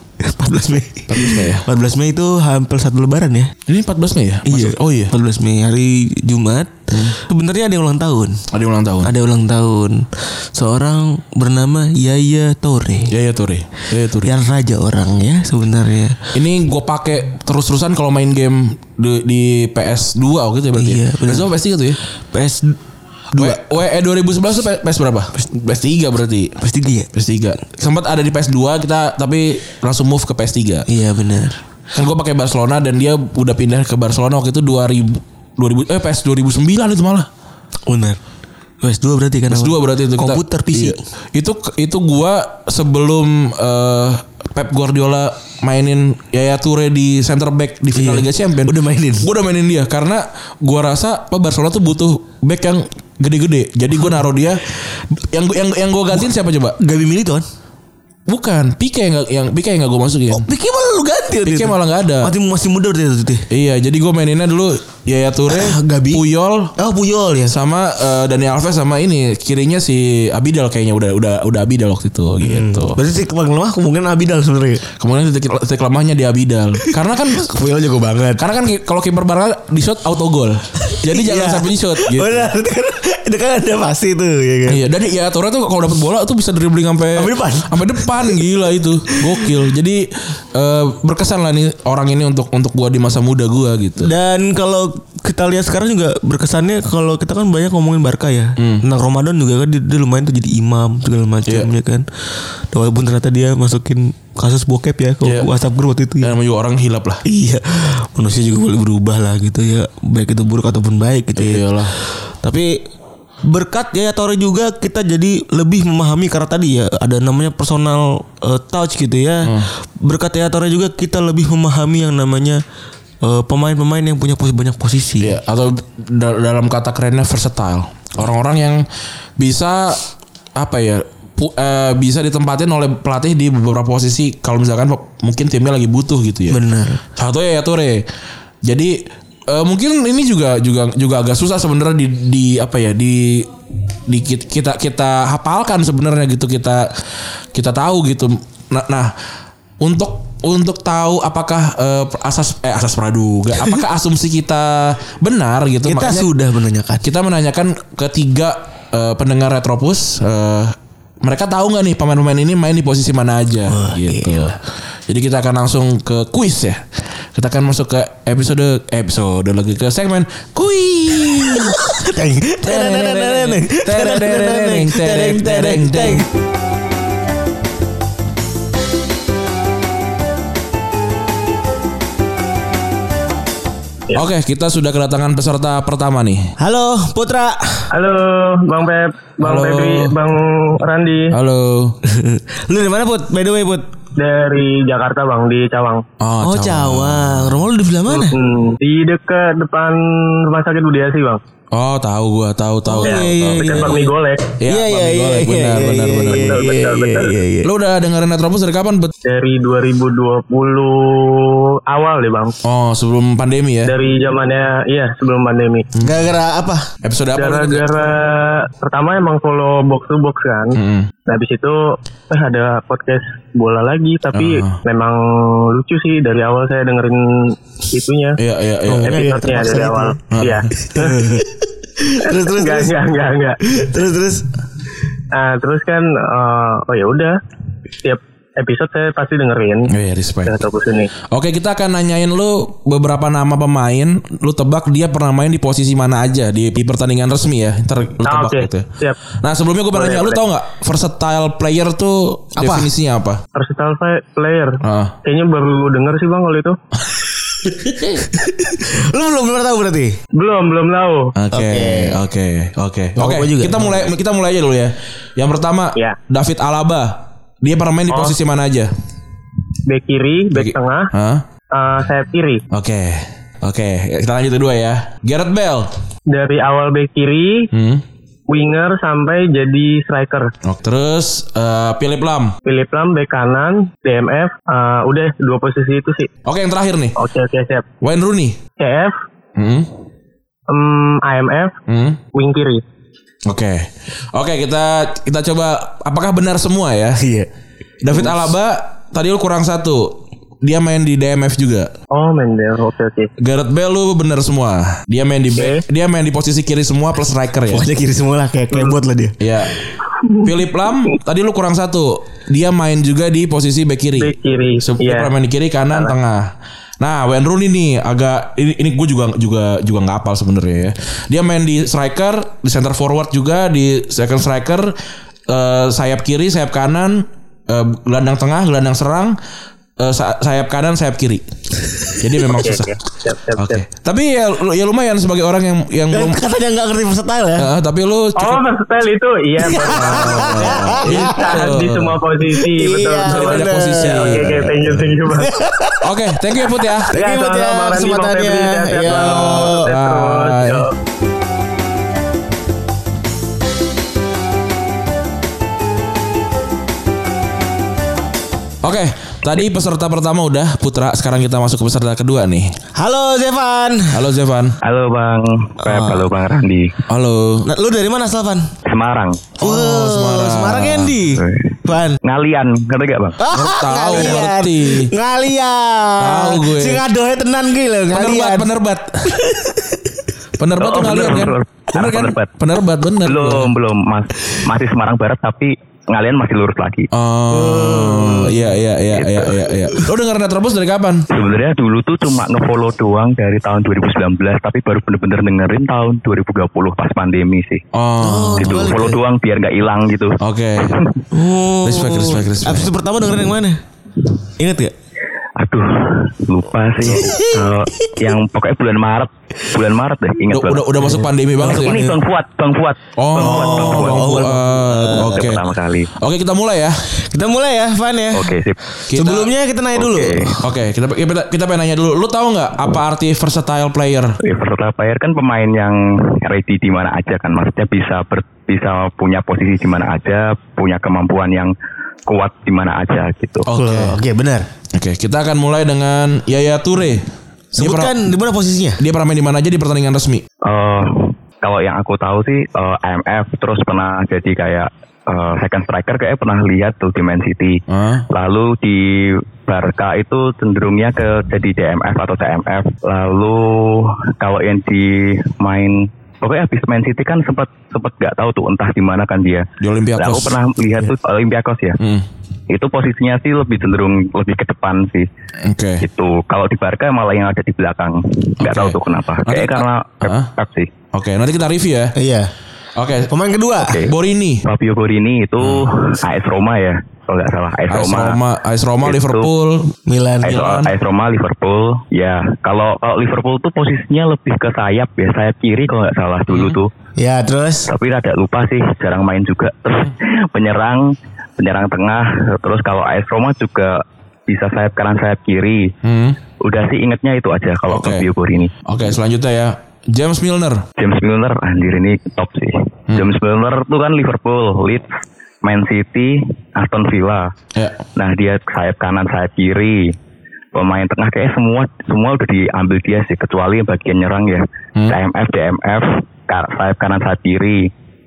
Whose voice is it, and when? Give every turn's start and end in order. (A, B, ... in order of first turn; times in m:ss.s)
0:00.2-0:03.6 A
0:01.1-0:01.7 B
0:03.7-0:05.1 B
0:04.5-0:08.4 A
0:06.9-0:07.2 B
0:08.5-0:09.1 B
0:09.0-0:13.1 A
0:13.1-0:14.3 B
0:14.2-0:16.2 A
0:16.3-0:22.0 B
0:20.8-0:21.5 A
0:22.3-0:22.8 A
0:23.3-0:23.6 A
0:23.3-0:26.6 B
0:26.6-0:27.1 A
0:27.1-0:30.9 B
0:30.9-0:31.6 A
0:31.9-0:37.3 B
0:37.9-0:38.2 A
0:38.8-0:41.0 A
0:39.5-0:54.6 B
0:48.0-0:49.3 A
0:55.3-0:56.8 B
0:56.8-0:57.4 A
0:58.3-1:00.5 B
1:00.3-1:03.5 A
1:01.5-1:02.3 B
1:03.5-1:06.8 B
1:05.5-1:06.2 A
1:06.8-1:07.6 A
1:07.5-1:13.0 B
1:12.4-1:14.8 A
1:15.0-1:17.5 B
1:16.9-1:18.4 A
1:18.4-1:22.5 B
1:20.8-1:24.8 A
1:24.7-1:34.1 B
1:27.2-1:28.4 A
1:29.2-1:29.5 A
1:34.0-1:42.0 A
1:38.6-1:38.8 B
1:41.5-1:41.7 B
1:42.7-1:46.4 A
1:45.2-1:45.5 B
1:46.2-1:47.2 B
1:47.2-1:52.8 A
1:51.4-1:51.9 B
1:53.4-2:02.6 A
1:59.4-1:59.7 B
2:03.2-2:05.4 A
2:05.2-2:08.9 B
2:09.4-2:18.0 B
2:16.5-2:17.0 A
2:18.6-2:23.5 B
2:24.1-2:26.9 B
2:27.5-2:29.1 B
2:29.8-2:36.3 B
2:35.9-2:37.0 A
2:37.0-2:51.8 B
2:43.7-2:44.6 A
2:51.8-2:56.3 A
2:52.6-2:56.3 B
3:04.1-3:06.6 B
3:06.6-3:07.9 A
3:07.9-3:11.3 C
3:09.4-3:10.2 B
3:11.3-3:12.0 B
3:12.0-3:13.9 A
3:14.2-3:16.0 C
3:16.2-3:17.6 B
3:16.4-3:18.4 A
3:18.1-3:21.4 C
3:21.7-3:24.0 B
3:22.9-3:24.1 A
3:23.0-3:24.5 C
3:24.6-3:26.6 B
3:24.7-3:27.7 A
3:26.3-3:27.3 C
3:27.6-3:29.1 B
3:29.2-3:32.6 C
3:32.6-3:33.9 B
3:33.9-3:35.9 C
3:36.0-3:36.9 A
3:37.0-3:38.0 B
3:37.4-3:48.4 C
3:40.7-3:41.1 B
3:44.3-3:44.8 B
3:48.4-3:49.3 B
3:48.9-3:50.2 A
3:49.0-3:51.2 C
3:50.3-3:50.7 B
3:50.8-3:53.0 A
3:52.2-3:53.6 C
3:53.6-3:54.5 A
3:55.3-3:57.4 C
3:58.0-3:59.9 C
3:59.9-4:00.6 B
4:00.4-4:01.1 C
4:01.3-4:08.9 B
4:08.2-4:09.2 C
4:09.4-4:13.4 B
4:09.9-4:10.4 C
4:12.6-4:12.9 A
4:13.6-4:16.8 C
4:14.8-4:15.2 B
4:18.0-4:20.2 A
4:20.3-4:21.3 C
4:21.4-4:28.9 B
4:21.5-4:22.2 A
4:23.2-4:24.0 A
4:29.9-4:31.1 C
4:30.5-4:31.5 B
4:31.7-4:32.6 C
4:32.7-4:35.9 B
4:36.3-4:37.7 C
4:37.7-4:38.0 B
4:38.5-4:40.5 C
4:40.6-4:42.6 B
4:42.7-4:46.3 C
4:46.4-4:47.2 B
4:47.2-4:47.8 C
4:48.0-4:48.6 B
4:48.8-4:49.2 C
4:49.6-4:49.9 B
4:50.7-4:51.8 C
4:51.9-4:52.2 B
4:52.3-4:52.8 C
4:53.5-4:57.2 B
4:57.2-4:57.5 A
4:58.0-5:01.9 B
5:02.1-5:03.3 C
5:03.4-5:07.9 B
5:07.7-5:09.4 A
5:09.4-5:09.8 B
5:10.4-5:24.9 B
5:14.2-5:15.3 C
5:25.5-5:29.4 B
5:30.0-5:31.4 B
5:32.2-5:33.0 B
5:32.5-5:33.8 C
5:33.6-5:36.4 B
5:36.1-5:37.7 A
5:37.6-5:38.6 B
5:38.4-5:45.6 C
5:39.6-5:41.7 A
5:39.9-5:42.2 B
5:42.5-5:44.7 A
5:43.2-5:45.0 B
5:45.3-5:46.1 A
5:46.0-5:47.1 B
5:46.6-5:49.9 A
5:47.1-5:50.9 C
5:49.1-5:50.9 B
5:58.8-6:02.8 B
6:03.0-6:04.2 A
6:04.1-6:04.8 B
6:04.8-6:07.0 D
6:05.8-6:06.3 A
6:07.1-6:07.7 B
6:07.6-6:08.7 A
6:08.9-6:09.5 D
6:09.6-6:11.2 B
6:09.6-6:12.2 A
6:11.4-6:13.4 D
6:13.4-6:18.7 A
6:13.5-6:15.1 B
6:16.2-6:17.0 B
6:18.1-6:19.4 B
6:19.3-6:20.0 A
6:20.6-6:23.7 B
6:20.8-6:22.5 D
6:23.2-6:27.1 D
6:27.1-6:31.3 B
6:27.5-6:28.6 A
6:29.1-6:29.5 D
6:31.3-6:37.8 D
6:37.9-6:38.9 B
6:38.2-6:39.2 A
6:38.6-6:41.2 D
6:40.4-6:41.0 B
6:41.3-6:43.8 A
6:41.8-6:42.9 B
6:44.6-6:44.9 A
6:45.6-6:51.0 D
6:47.1-6:48.2 A
6:50.5-6:52.0 B
6:51.6-6:52.2 A
6:51.6-6:56.1 D
6:53.2-6:57.0 B
6:53.4-6:55.5 A
6:57.2-6:58.6 A
6:58.3-6:58.8 D
6:59.1-6:59.5 B
6:59.1-7:00.6 A
7:00.0-7:00.5 D
7:00.6-7:04.4 B
7:04.4-7:11.7 D
7:12.3-7:13.7 D
7:13.6-7:14.2 B
7:13.7-7:14.7 A
7:14.9-7:18.2 B
7:17.8-7:19.0 A
7:19.0-7:20.4 B
7:20.6-7:42.0 D
7:27.9-7:28.3 B
7:39.8-7:41.0 B
7:42.0-7:42.3 B
7:42.7-7:45.3 D
7:45.6-7:46.0 B
7:46.0-7:50.9 D
7:48.6-7:50.5 B
7:51.1-7:52.2 B
7:52.2-7:52.5 A
7:53.0-7:53.3 B
7:53.3-7:54.0 A
7:53.8-7:54.1 D
7:54.0-7:54.7 B
7:54.6-7:58.4 D
7:55.6-7:55.9 B
7:57.9-8:00.9 B
7:59.0-7:59.5 D
8:00.1-8:00.6 A
8:00.4-8:06.9 D
8:06.5-8:06.8 B
8:07.2-8:07.9 A
8:07.9-8:15.9 D
8:16.0-8:16.4 B
8:16.6-8:18.7 D
8:17.9-8:18.3 B
8:18.8-8:20.9 B
8:21.0-8:27.5 D
8:23.1-8:23.4 B
8:27.8-8:28.0 B
8:28.2-8:30.2 D
8:30.7-8:37.9 D